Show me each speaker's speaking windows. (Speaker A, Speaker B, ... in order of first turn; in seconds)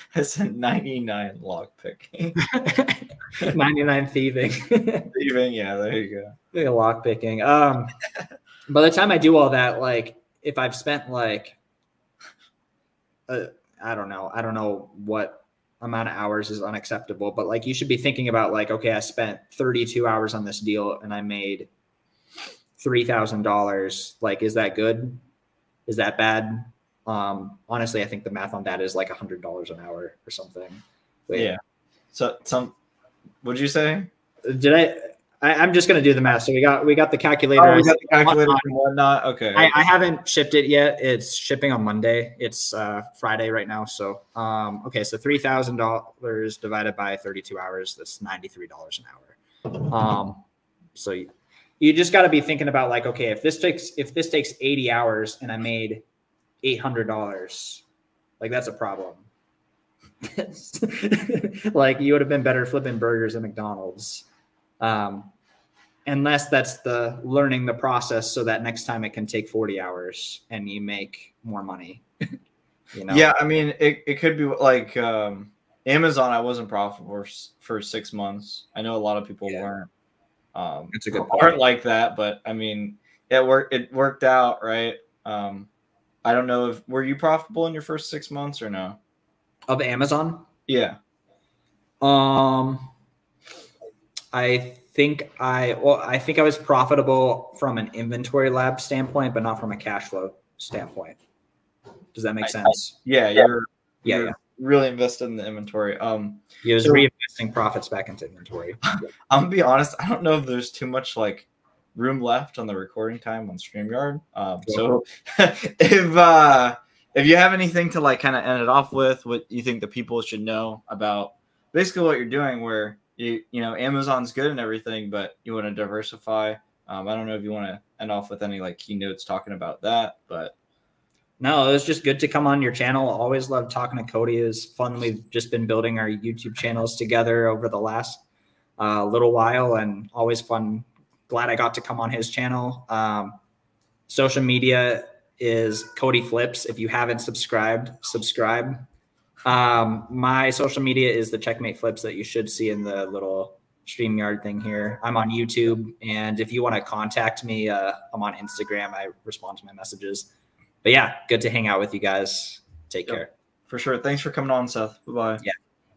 Speaker A: 0.1-2.4, 5.1-6.3, 31.3-31.6, 32.1-32.7, 33.4-34.1, 37.6-39.7, 73.1-79.9, 80.5-85.7, 86.2-89.0, 90.7-91.0, 102.4-107.0, 109.3-130.5, 163.1-165.4
Speaker B: 2.4-5.1, 6.5-8.0, 8.7-11.6, 13.3-21.7, 22.8-25.2, 25.9-31.5, 34.4-38.6, 39.5-50.4, 50.9-51.3, 51.8-56.0, 56.6-57.8, 58.4-59.2, 60.2-64.3, 64.8-65.3, 66.0-72.0, 72.9-73.3, 80.9-81.6, 89.7-90.5, 92.0-92.9, 94.3-101.2, 102.1-103.0, 104.0-104.3, 106.6-108.8, 131.4-138.2, 138.8-143.4, 144.1-148.8, 149.4-160.3, 160.8-163.3